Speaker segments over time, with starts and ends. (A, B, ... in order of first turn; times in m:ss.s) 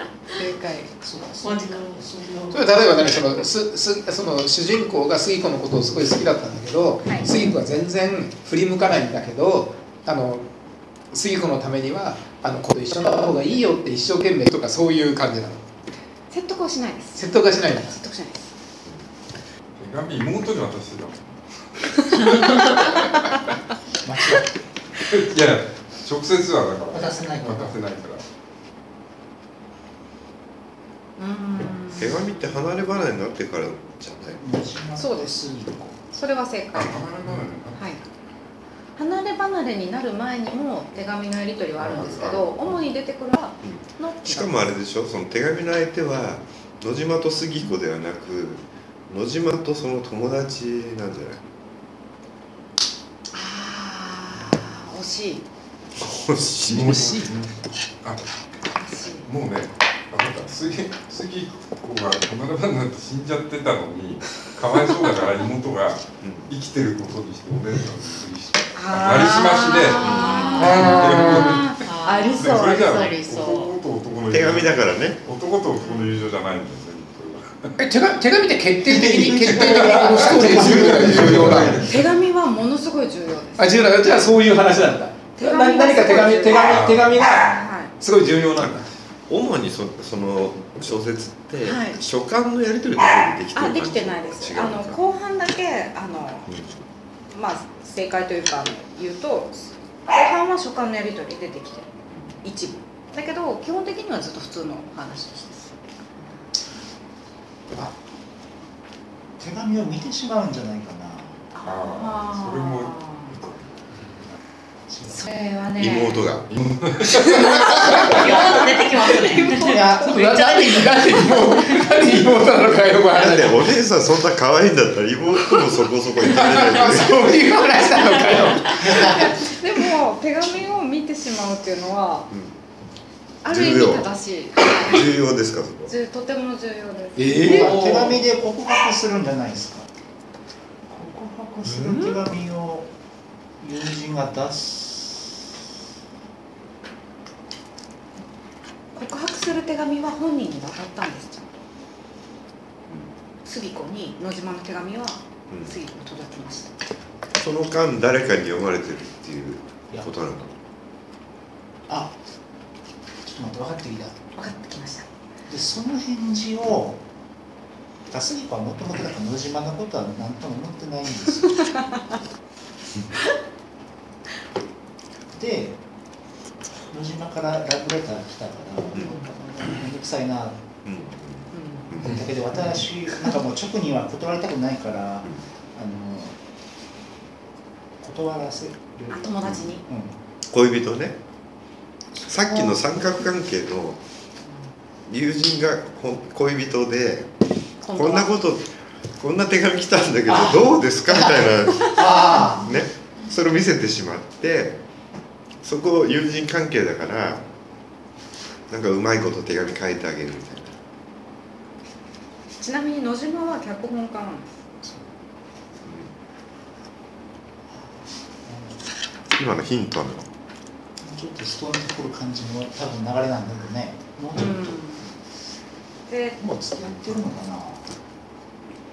0:00.4-0:00.9 A
0:01.0-0:02.7 B
0:01.4-0:02.0 C
0:02.5-0:10.5 D
0:11.1-0:15.6 D
0:16.3-0:18.4 A
0:17.2-0:18.0 D
0:19.8-0:21.3 E
0:22.0-0:22.9 E
0:24.0-0:24.4 B
0:25.1-0:28.2 E
0:26.9-0:27.8 B
0:31.2-0:32.6 A
0:32.0-0:34.4 F
0:34.4-0:36.0 B
0:35.0-0:35.4 A
0:36.1-0:37.0 A
0:36.7-0:38.0 E
0:37.8-0:38.0 A
0:39.0-0:44.7 A
0:41.8-0:42.8 E
0:43.6-0:51.4 F
0:53.3-0:55.4 A
0:56.0-0:57.2 F
0:56.7-0:58.3 E
0:56.7-0:57.3 D
0:58.7-0:59.3 A
0:59.2-1:17.8 E
1:06.2-1:06.5 F
1:08.8-1:13.0 A
1:10.0-1:10.9 F
1:10.6-1:11.6 D
1:11.8-1:13.8 C
1:14.3-1:15.2 F
1:15.8-1:16.1 A
1:17.8-1:21.8 D
1:18.8-1:22.0 B
1:19.5-1:22.1 E
1:21.8-1:23.8 A
1:23.6-1:28.9 D
1:25.4-1:27.9 A
1:26.6-1:27.3 E
1:29.3-1:35.0 F
1:31.6-1:32.0 A
1:33.6-1:36.5 A
1:36.5-1:36.7 F
1:37.3-1:41.9 A
1:42.4-1:45.8 A
1:49.4-1:51.4 B
1:51.5-1:53.4 A
1:51.6-1:53.8 E
1:54.9-1:55.3 B
1:55.1-1:56.2 A
1:55.8-1:56.6 F
1:56.6-1:57.6 E
1:57.2-1:58.2 A
1:57.7-2:01.5 C
1:57.9-1:58.2 D
1:59.6-2:03.6 D
1:59.8-2:00.0 B
2:03.1-2:07.4 F
2:06.2-2:08.9 D
2:08.8-2:12.3 A
2:08.8-2:09.2 B
2:13.4-2:15.2 A
2:13.4-2:15.9 F
2:15.9-2:17.8 A
2:17.2-2:18.2 D
2:17.4-2:19.9 B
2:20.9-2:22.9 B
2:21.7-2:22.1 D
2:23.6-2:25.4 B
2:28.9-2:31.6 A
2:33.4-2:36.8 A
2:35.5-2:35.8 F
2:37.4-2:40.5 F
2:41.9-2:42.2 B
2:43.2-2:44.3 B
2:44.4-2:45.1 A
2:45.5-2:47.0 B
2:48.1-2:51.6 B
2:55.3-2:55.8 B
2:56.9-3:00.6 B
3:00.8-3:02.2 F
3:01.5-3:02.2 A
3:02.0-3:06.4 B
3:08.0-3:10.2 B
3:09.1-3:09.8 A
3:10.5-3:11.2 F
3:12.2-3:12.7 B
3:12.3-3:14.0 F
3:15.1-3:17.3 F
3:17.8-3:18.3 A
3:17.9-3:24.8 F
3:22.0-3:22.6 D
3:22.1-3:22.6 B
3:25.6-3:27.4 F
3:28.7-3:30.8 F
3:32.6-3:34.6 A
3:35.8-3:36.1 F
3:37.8-3:38.8 B
3:39.3-3:40.3 F
3:41.0-3:45.0 B
3:44.4-3:45.0 A
3:46.1-3:46.4 A
3:46.4-3:47.9 B